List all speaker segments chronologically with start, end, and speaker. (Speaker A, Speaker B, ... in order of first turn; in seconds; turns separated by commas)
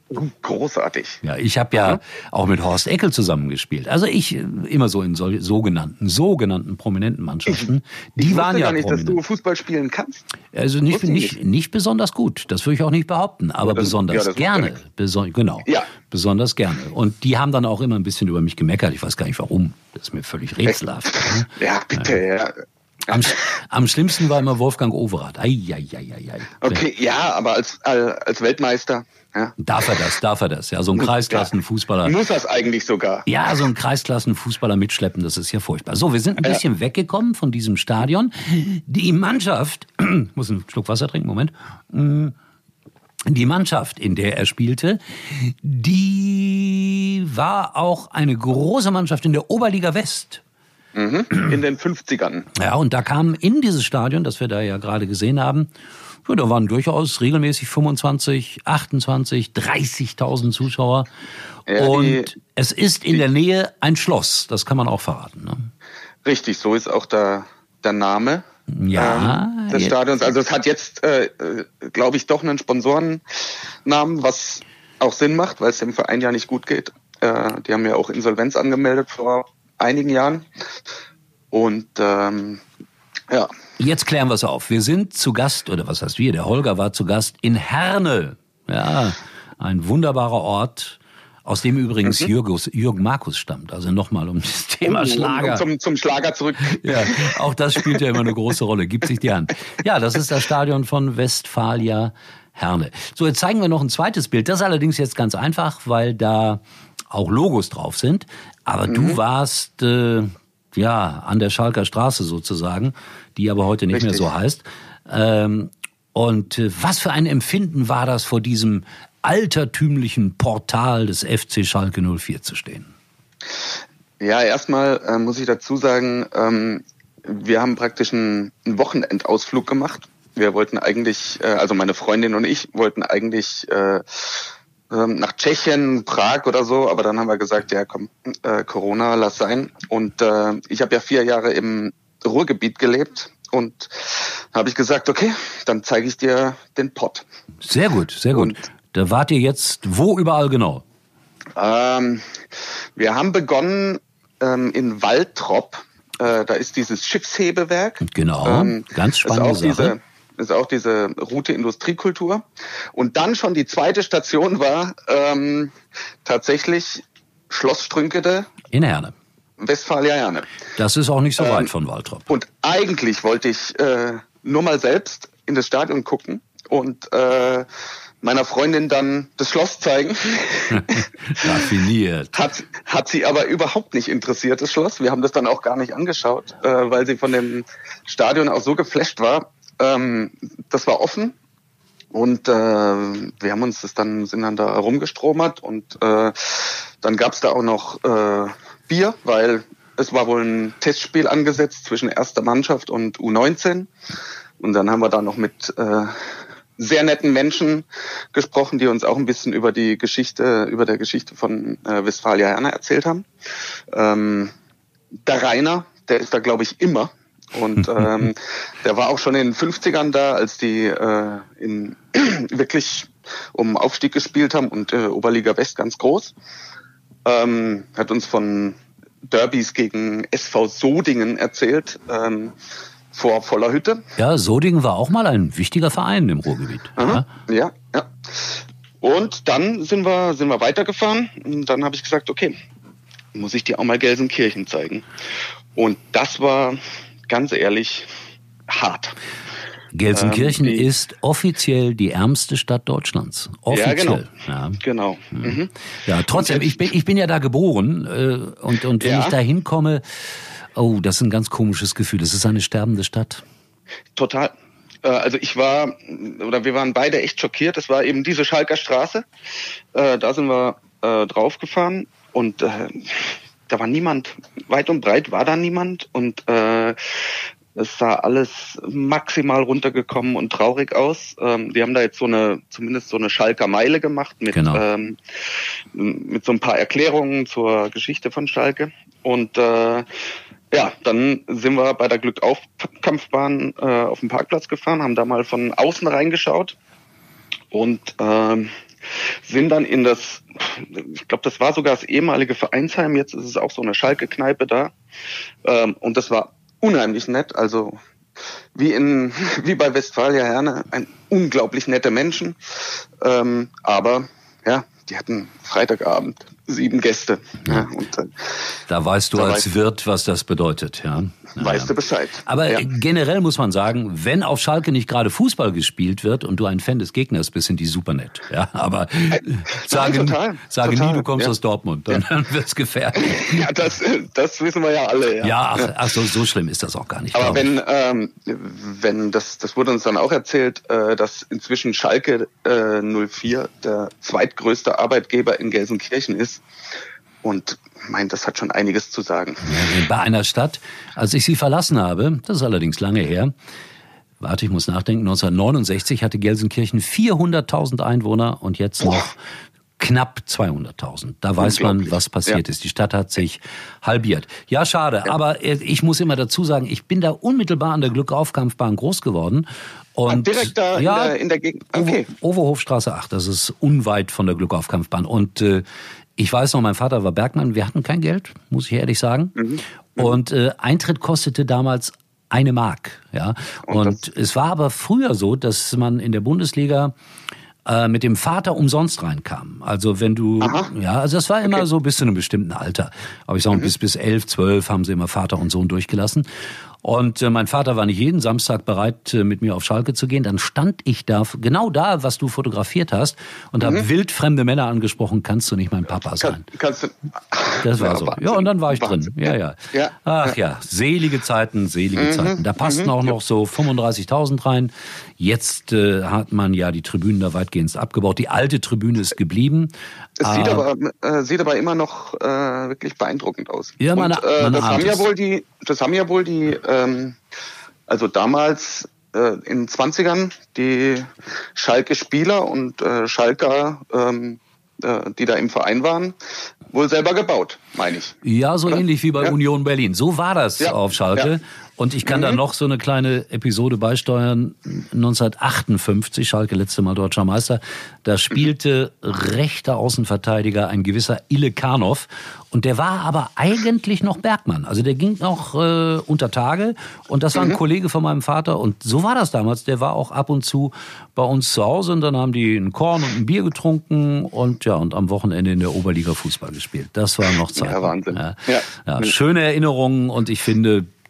Speaker A: 0.1-1.2, Speaker B: 1.2-9.2, Speaker A: 1.7-2.0, Speaker A: 7.5-10.2, Speaker B: 10.5-22.2, Speaker A: 10.9-11.4, Speaker A: 13.6-14.8, Speaker A: 15.7-15.9, Speaker A: 20.6-22.5, Speaker B: 23.1-26.8, Speaker A: 26.6-29.9, Speaker B: 29.6-32.2, Speaker A: 30.9-31.5, Speaker A: 32.0-33.2, Speaker B: 33.2-42.3, Speaker B: 43.3-50.4, Speaker A: 50.9-52.5, Speaker B: 52.5-55.7, Speaker B: 56.2-61.1, Speaker A: 61.7-62.3, Speaker B: 61.7-65.7, Speaker A: 66.2-73.2, Speaker B: 68.7-70.0, Speaker A: 73.8-80.5, Speaker A: 81.5-82.6, Speaker B: 83.8-95.7, Speaker A: 94.8-98.0, Speaker B: 96.6-122.9, Speaker A: 108.9-109.2, Speaker A: 113.9-114.3, Speaker A: 124.2-147.2, Speaker B: 147.6-150.8, Speaker A: 148.3-148.6, Speaker A: 151.6-152.3, Speaker A: 152.9-162.4, Speaker B: 158.0-159.9, Speaker A: 162.9-165.7, Speaker A: 166.2-168.5, Speaker B: 168.7-169.1, Speaker A: 169.6-170.4, Speaker B: 170.8-172.3, Speaker A: 171.4-171.7, Speaker A: 172.3-177.7, Speaker A: 178.2-181.0, Speaker B: 180.7-182.4, Speaker A: 182.3-191.3, Speaker A: 192.1-203.9, Speaker A: 204.6-206.1, Speaker A: 206.8-213.3, Speaker A: 213.9-214.5, Speaker A: 215.2-226.3, Speaker A: 227.2-228.8, Speaker A: 229.3-232.5, Speaker A: 233.1-234.0, Speaker B: 234.2-237.2, Speaker A: 237.0-242.6, Speaker A: 243.3-245.1, Speaker A: 245.7-246.8, Speaker A: 247.3-248.1, Speaker A: 248.7-249.2, Speaker B: 249.9-254.8, Speaker A: 250.1-250.9, Speaker A: 253.7-254.2, Speaker A: 254.8-255.7, Speaker B: 255.3-260.0, Speaker A: 256.3-256.9, Speaker A: 259.0-259.4, Speaker B: 260.7-263.4, Speaker A: 264.1-264.5, Speaker A: 265.0-269.2, Speaker A: 269.9-277.1, Speaker A: 277.7-285.2, Speaker B: 284.5-284.8, Speaker A: 285.9-290.1, Speaker A: 290.7-296.8, Speaker A: 297.7-298.7, Speaker A: 299.4-304.9, Speaker A: 305.6-308.0, Speaker A: 308.7-312.6, Speaker A: 313.2-318.5, Speaker B: 318.9-321.9, Speaker A: 319.3-319.6, Speaker A: 321.6-322.9, Speaker B: 322.4-333.6, Speaker A: 329.4-331.5, Speaker A: 333.2-335.9, Speaker B: 335.4-337.6, Speaker A: 337.3-346.6, Speaker A: 347.4-349.7, Speaker B: 349.6-353.5, Speaker B: 354.4-359.4, Speaker B: 360.0-371.3, Speaker A: 361.6-362.6, Speaker A: 370.3-372.2, Speaker B: 371.9-375.8, Speaker B: 376.4-379.6, Speaker A: 379.6-380.4, Speaker B: 380.1-387.1, Speaker A: 383.9-384.2, Speaker B: 387.9-396.4, Speaker A: 390.6-390.9, Speaker B: 397.0-406.6, Speaker A: 403.8-404.1, Speaker A: 406.4-410.5, Speaker B: 407.8-420.9, Speaker A: 412.1-413.4, Speaker A: 420.4-427.4, Speaker B: 424.0-425.3, Speaker A: 428.1-436.4, Speaker A: 436.9-438.4, Speaker B: 438.4-471.1, Speaker A: 438.9-439.6, Speaker A: 440.8-441.5, Speaker A: 442.2-442.6, Speaker A: 457.5-457.8, Speaker A: 467.7-469.3